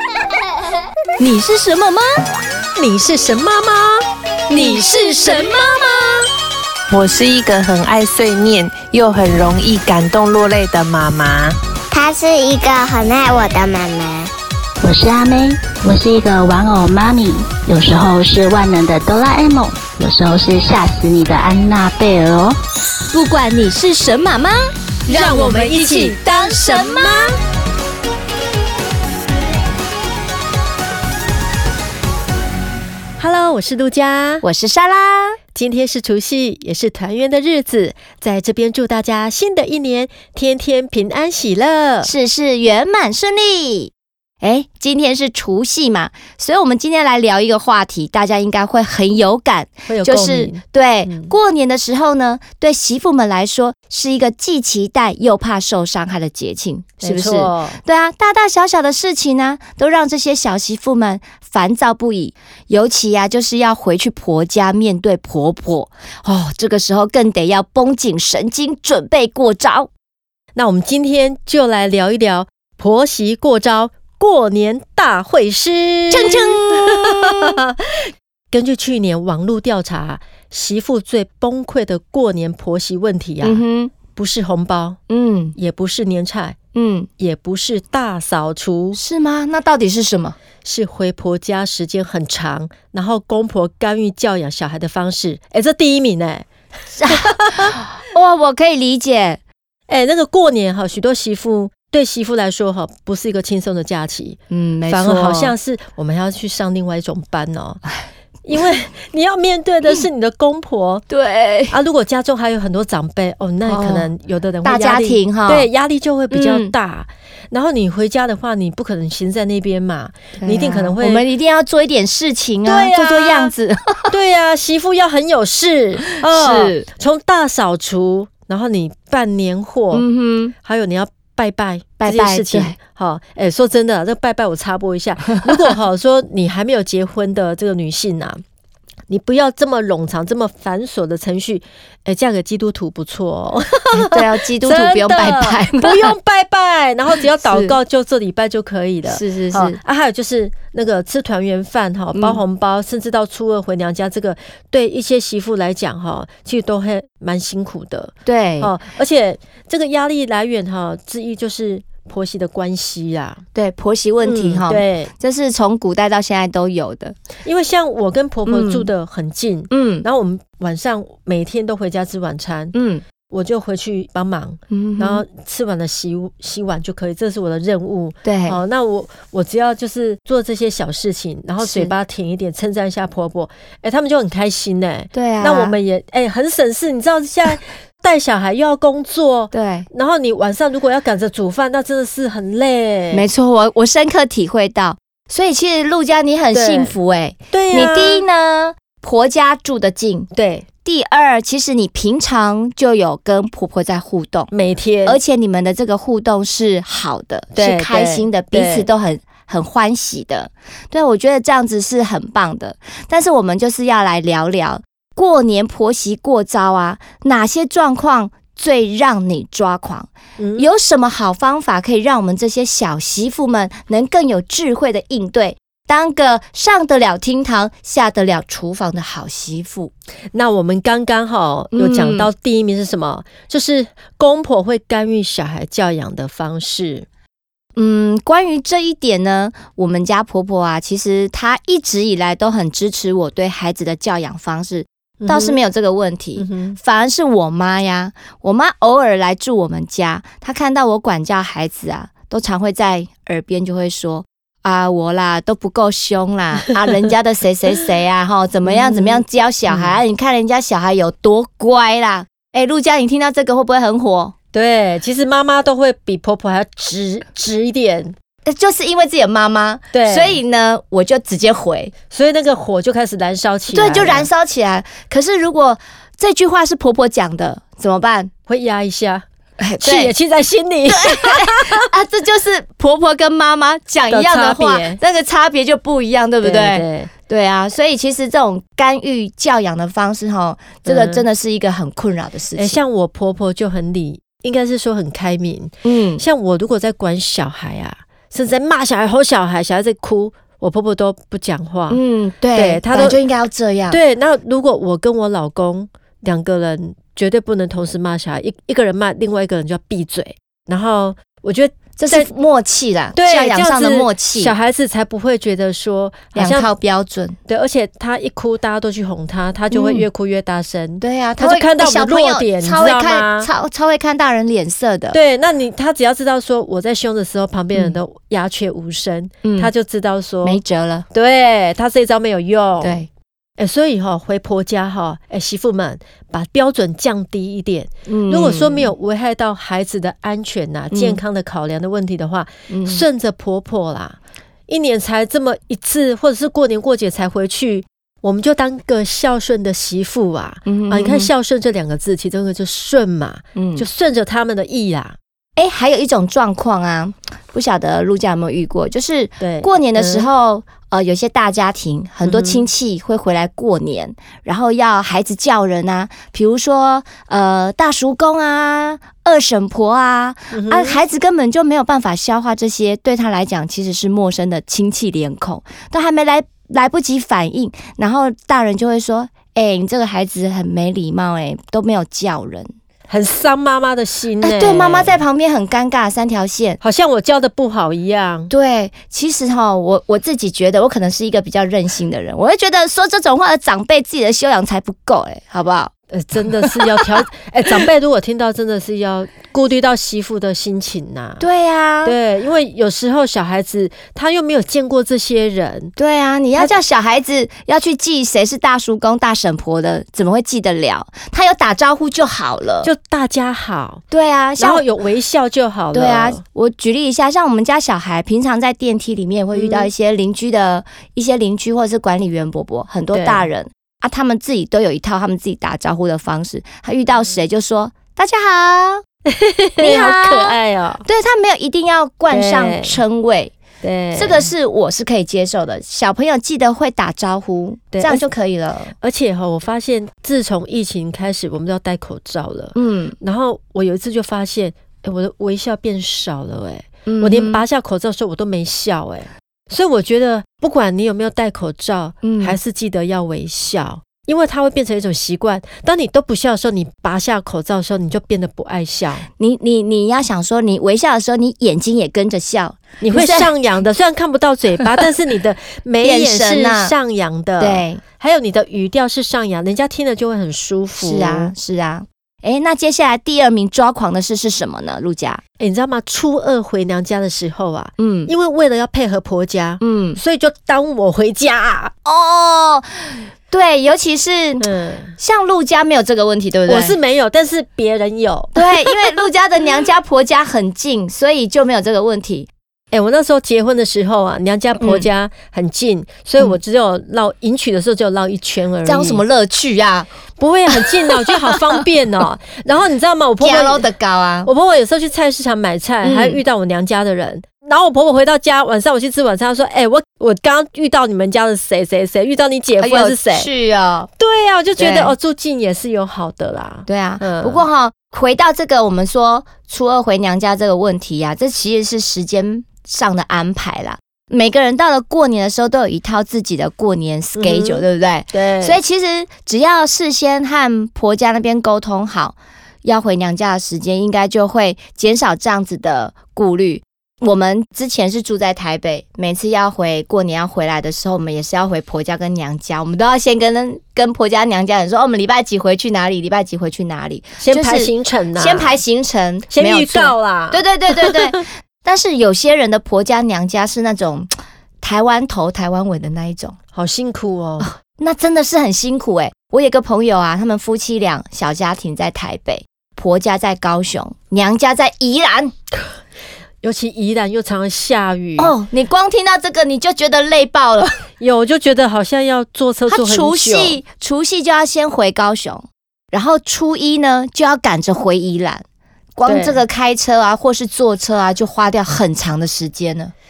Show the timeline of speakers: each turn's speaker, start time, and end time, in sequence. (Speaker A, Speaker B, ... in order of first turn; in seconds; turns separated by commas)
Speaker A: 1.2-2.2, Speaker B: 2.8-4.0, Speaker A: 4.5-6.2, Speaker C: 6.9-11.5, Speaker D: 11.9-14.3, Speaker E: 14.8-22.6, Speaker A: 23.1-27.3, Speaker B: 25.1-27.4, Speaker B: 33.2-34.4, Speaker A: 34.4-35.4, Speaker B: 35.5-42.1, Speaker A: 42.0-69.9, Speaker B: 49.9-51.3, Speaker B: 57.0-57.8, Speaker B: 70.5-77.5, Speaker A: 76.1-77.7, Speaker B: 78.5-85.0, Speaker A: 83.4-83.9, Speaker A: 85.1-85.5, Speaker B: 85.5-86.6, Speaker A: 86.7-87.1, Speaker B: 87.2-89.0, Speaker A: 88.9-90.3, Speaker B: 90.6-96.5, Speaker A: 97.0-99.4, Speaker B: 97.0-97.7, Speaker B: 99.9-107.8, Speaker A: 104.5-105.5, Speaker B: 108.4-111.0, Speaker A: 111.1-111.8, Speaker B: 111.7-121.2, Speaker A: 113.7-114.1, Speaker A: 114.6-115.7, Speaker A: 116.3-116.7, Speaker A: 120.4-124.1, Speaker B: 122.6-123.5, Speaker B: 124.1-130.1, Speaker A: 126.2-126.8, Speaker A: 129.9-130.5, Speaker B: 130.6-138.4, Speaker A: 132.0-132.8, Speaker B: 139.1-163.4, Speaker A: 144.0-146.1, Speaker A: 147.4-147.8, Speaker A: 149.1-149.8, Speaker A: 152.1-152.4, Speaker A: 158.2-158.7, Speaker A: 163.5-167.2, Speaker B: 164.2-165.1, Speaker B: 167.4-172.7, Speaker A: 168.4-168.9, Speaker A: 169.7-170.1, Speaker A: 172.7-173.0, Speaker B: 173.3-193.3, Speaker A: 174.7-175.2, Speaker A: 178.2-178.6, Speaker A: 181.6-181.9, Speaker A: 185.1-185.8, Speaker A: 189.5-189.9, Speaker A: 193.1-200.3, Speaker B: 196.5-196.9, Speaker B: 197.5-198.2, Speaker B: 200.3-200.7, Speaker A: 200.8-204.5, Speaker B: 204.5-205.2, Speaker A: 205.0-229.9, Speaker B: 207.6-208.9, Speaker B: 220.4-220.7, Speaker B: 230.3-237.1, Speaker A: 231.7-232.3, Speaker A: 237.8-264.3, Speaker B: 245.2-245.6, Speaker B: 246.4-246.8, Speaker B: 258.6-260.0, Speaker B: 264.5-268.1, Speaker A: 268.4-271.9, Speaker B: 269.9-270.4, Speaker B: 272.1-274.3, Speaker A: 273.7-278.3, Speaker B: 278.5-279.2, Speaker A: 279.6-280.1, Speaker B: 279.8-281.9, Speaker A: 280.9-292.8, Speaker B: 284.1-285.0, Speaker B: 286.4-287.1, Speaker B: 290.9-291.2, Speaker B: 292.5-302.0, Speaker A: 295.8-296.2, Speaker A: 301.9-304.0, Speaker B: 302.5-303.2, Speaker B: 303.9-312.3, Speaker A: 312.0-314.5, Speaker B: 313.1-316.7, Speaker A: 316.3-317.4, Speaker B: 317.5-323.5, Speaker A: 319.7-320.1, Speaker A: 321.0-325.2, Speaker B: 325.1-330.6, Speaker A: 329.4-329.7, Speaker A: 330.4-331.0, Speaker B: 331.1-333.1, Speaker A: 332.8-333.1, Speaker B: 333.6-344.2, Speaker A: 338.1-338.9, Speaker A: 340.9-341.2, Speaker A: 342.7-343.0, Speaker B: 344.7-355.2, Speaker A: 350.6-351.3, Speaker A: 353.5-353.9, Speaker A: 355.6-382.7, Speaker B: 359.4-360.3, Speaker B: 362.2-362.6, Speaker B: 370.5-371.0, Speaker B: 383.1-385.2, Speaker A: 384.4-386.8, Speaker B: 386.8-388.5, Speaker A: 388.5-395.9, Speaker B: 396.1-401.4, Speaker A: 396.6-396.9, Speaker A: 401.4-402.2, Speaker B: 402.0-405.9, Speaker A: 406.0-412.9, Speaker B: 412.8-414.0, Speaker A: 414.1-414.9, Speaker B: 414.6-416.4, Speaker A: 415.9-429.0, Speaker B: 419.5-419.9, Speaker B: 423.1-423.5, Speaker B: 429.2-431.0, Speaker A: 429.8-433.5, Speaker B: 432.3-433.0, Speaker B: 433.8-434.5, Speaker A: 434.1-438.9, Speaker B: 437.9-438.2, Speaker B: 439.0-459.2, Speaker A: 442.7-443.1, Speaker A: 447.1-447.6, Speaker A: 452.2-452.6, Speaker A: 459.4-463.5, Speaker B: 463.0-471.5, Speaker A: 466.0-466.9, Speaker A: 467.6-468.0, Speaker A: 470.9-475.4, Speaker B: 475.6-481.9, Speaker A: 478.0-478.3, Speaker A: 479.8-480.2, Speaker A: 482.0-487.0, Speaker B: 484.6-485.1, Speaker B: 486.7-489.1, Speaker A: 488.5-492.5, Speaker B: 492.9-499.2, Speaker A: 494.8-495.1, Speaker A: 498.8-500.1, Speaker B: 500.4-503.9, Speaker A: 503.4-504.5, Speaker B: 504.4-513.5, Speaker A: 506.0-506.4, Speaker A: 512.8-514.1, Speaker B: 514.2-517.6, Speaker A: 514.8-515.1, Speaker A: 516.9-554.3, Speaker B: 527.4-528.8, Speaker B: 547.4-548.8, Speaker B: 549.5-551.4, Speaker A: 554.8-556.5, Speaker B: 556.7-557.8, Speaker A: 557.8-565.5, Speaker B: 566.6-568.5, Speaker A: 568.4-571.0, Speaker B: 571.2-573.8, Speaker A: 572.9-578.6, Speaker A: 579.1-583.1, Speaker B: 579.2-579.6